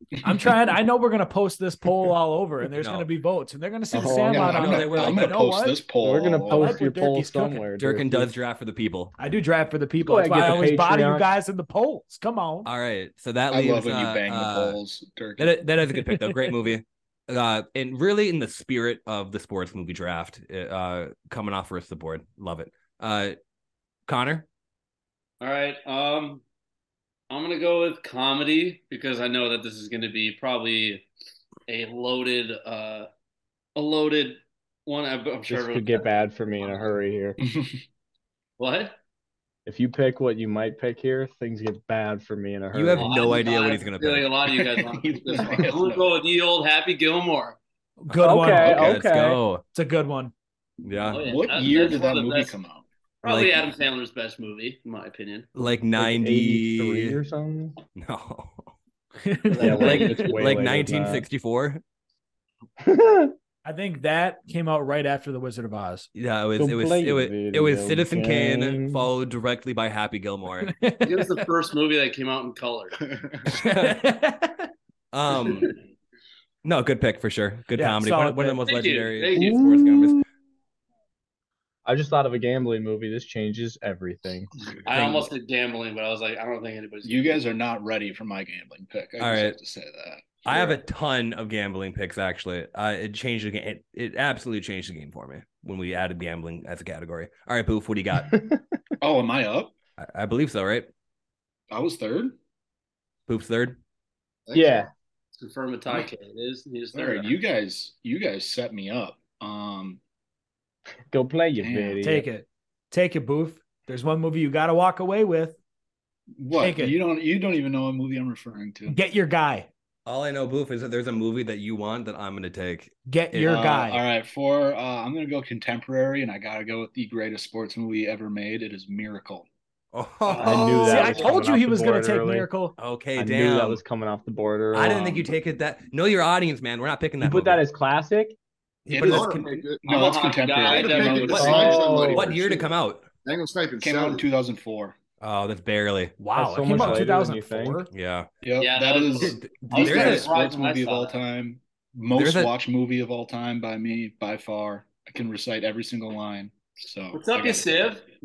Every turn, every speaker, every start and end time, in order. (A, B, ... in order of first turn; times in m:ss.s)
0:00.2-0:05.8 A
0:02.8-0:03.1 B
0:03.9-0:06.8 C
0:04.0-0:04.6 D
0:04.5-0:05.4 B
0:06.0-0:08.3 D
0:06.5-0:07.6 A
0:07.8-0:09.1 B
0:09.2-0:12.7 A
0:10.0-0:11.2 D
0:12.6-0:14.8 B
0:13.5-0:15.6 C
0:15.4-0:23.4 B
0:15.9-0:16.4 A
0:24.1-0:24.4 B
0:25.4-0:26.4 E
0:27.3-0:31.0 E
0:31.7-0:33.1 E
0:33.8-0:36.1 E
0:35.5-0:37.4 D
0:37.4-0:37.8 C
0:38.6-0:39.0 E
0:39.6-0:43.1 D
0:42.7-0:44.4 B
0:42.9-0:47.6 E
0:44.7-0:46.1 C
0:48.0-0:48.9 A
0:48.1-0:49.6 B
0:48.2-0:49.4 D
0:49.7-0:50.3 A
0:50.8-0:51.2 B
0:51.1-0:52.6 E
0:51.2-0:52.8 C
0:53.2-0:53.6 B
0:53.2-0:55.5 E
0:55.5-0:57.2 B
0:56.0-0:57.8 D
0:58.0-0:58.7 B
0:59.2-1:00.4 A
0:59.5-1:01.2 D
0:59.6-1:01.8 B
1:02.8-1:03.3 D
1:03.6-1:06.1 A
1:06.1-1:10.7 B
1:06.6-1:09.0 D
1:10.6-1:11.4 A
1:11.0-1:13.0 E
1:13.5-1:14.0 B
1:13.5-1:14.7 A
1:15.1-1:15.7 B
1:16.6-1:20.2 B
1:17.8-1:18.6 A
1:18.6-1:19.6 E
1:19.3-1:20.2 D
1:21.8-1:24.5 D
1:24.9-1:27.4 E
1:25.0-1:25.3 B
1:27.0-1:30.7 C
1:29.2-1:29.6 B
1:30.4-1:38.3 B
1:38.3-1:38.6 D
1:39.0-1:39.7 C
1:40.0-1:40.9 B
1:41.7-1:42.4 C
1:43.3-1:43.8 B
1:44.5-1:44.8 F
1:44.5-1:44.9 D
1:45.4-1:47.4 E
1:46.9-1:50.0 C
1:51.1-1:52.2 D
1:51.6-1:52.0 C
1:52.0-1:55.6 A
1:56.4-1:59.0 C
1:56.5-1:57.0 A
1:58.9-1:59.7 A
2:00.0-2:03.6 B
2:03.1-2:04.0 A
2:03.4-2:09.5 C
2:09.9-2:11.2 B
2:10.2-2:11.2 E
2:10.4-2:12.5 D
2:10.6-2:12.7 A
2:12.8-2:13.8 B
2:13.2-2:15.3 D
2:14.7-2:17.6 B
2:17.2-2:18.4 D
2:18.9-2:19.6 B
2:18.9-2:22.0 C
2:19.0-2:22.7 F
2:19.9-2:21.8 E
2:21.3-2:23.0 B
2:21.3-2:22.3 D
2:23.2-2:24.2 F
2:23.8-2:24.9 C
2:25.2-2:27.0 B
2:26.2-2:27.9 A
2:26.4-2:27.8 D
2:27.9-2:28.3 B
2:28.4-2:37.8 C
2:28.6-2:31.2 E
2:29.2-2:30.3 B
2:32.1-2:32.5 B
2:37.1-2:38.0 E